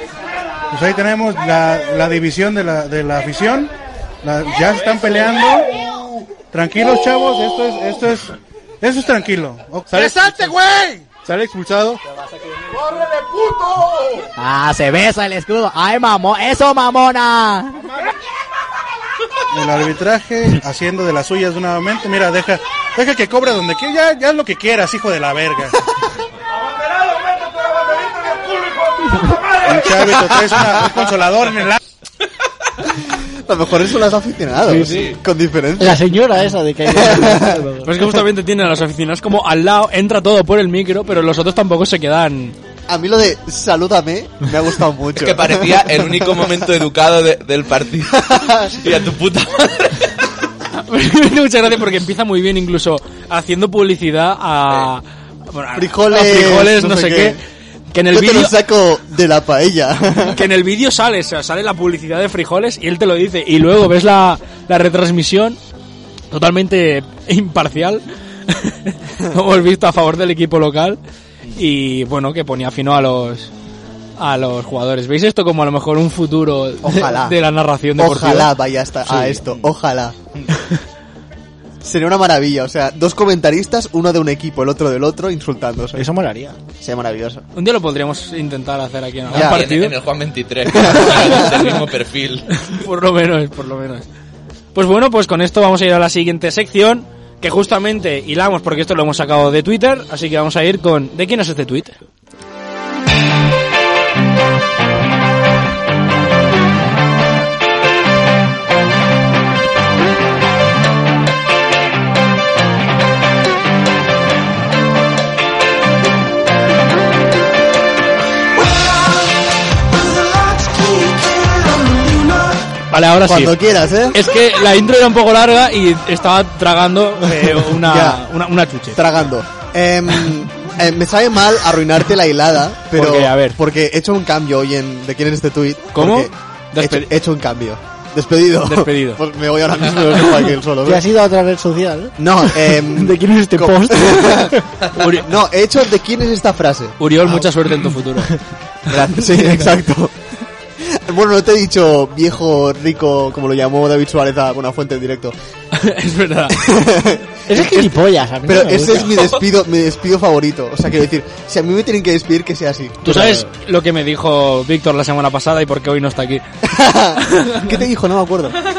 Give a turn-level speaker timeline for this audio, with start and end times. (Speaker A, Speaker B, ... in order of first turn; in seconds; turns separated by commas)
Speaker A: 0.7-3.7, Speaker A: 4.2-5.8, Speaker A: 6.5-12.0, Speaker B: 9.9-10.7, Speaker B: 11.2-11.9, Speaker B: 12.7-14.2, Speaker C: 14.4-17.8, Speaker A: 19.5-25.8, Speaker A: 29.6-31.8, Speaker D: 33.5-36.0, Speaker E: 34.6-35.2, Speaker E: 35.8-38.0, Speaker D: 36.9-37.6, Speaker F: 37.8-42.6, Speaker D: 42.9-46.6, Speaker G: 45.2-50.1, Speaker D: 48.3-48.8, Speaker F: 50.8-57.4, Speaker D: 55.8-57.4, Speaker F: 57.9-58.5, Speaker D: 58.1-60.4, Speaker F: 60.3-65.6, Speaker F: 66.3-71.0, Speaker F: 71.6-73.5, Speaker F: 74.2-78.5, Speaker D: 76.8-77.4, Speaker D: 78.0-80.2, Speaker F: 79.1-79.4, Speaker D: 81.8-86.1, Speaker E: 86.0-86.6, Speaker D: 86.8-87.4, Speaker F: 87.5-90.0, Speaker D: 89.3-89.7, Speaker G: 89.3-92.5, Speaker D: 90.7-91.5, Speaker F: 92.6-94.1, Speaker F: 94.8-102.0, Speaker F: 122.9-123.6, Speaker D: 123.2-124.2, Speaker F: 124.1-129.0, Speaker D: 127.7-128.2, Speaker D: 128.9-141.0, Speaker F: 132.9-133.6, Speaker F: 135.9-137.1, Speaker F: 138.6-139.2, Speaker E: 140.8-144.7, Speaker D: 142.2-147.5, Speaker F: 144.9-145.3, Speaker F: 147.0-148.3, Speaker D: 148.9-155.3, Speaker E: 149.3-149.6, Speaker F: 155.7-156.6, Speaker D: 156.5-163.0, Speaker E: 157.5-159.4, Speaker E: 163.0-163.4, Speaker F: 163.0-166.4, Speaker D: 166.7-168.6, Speaker F: 167.3-167.7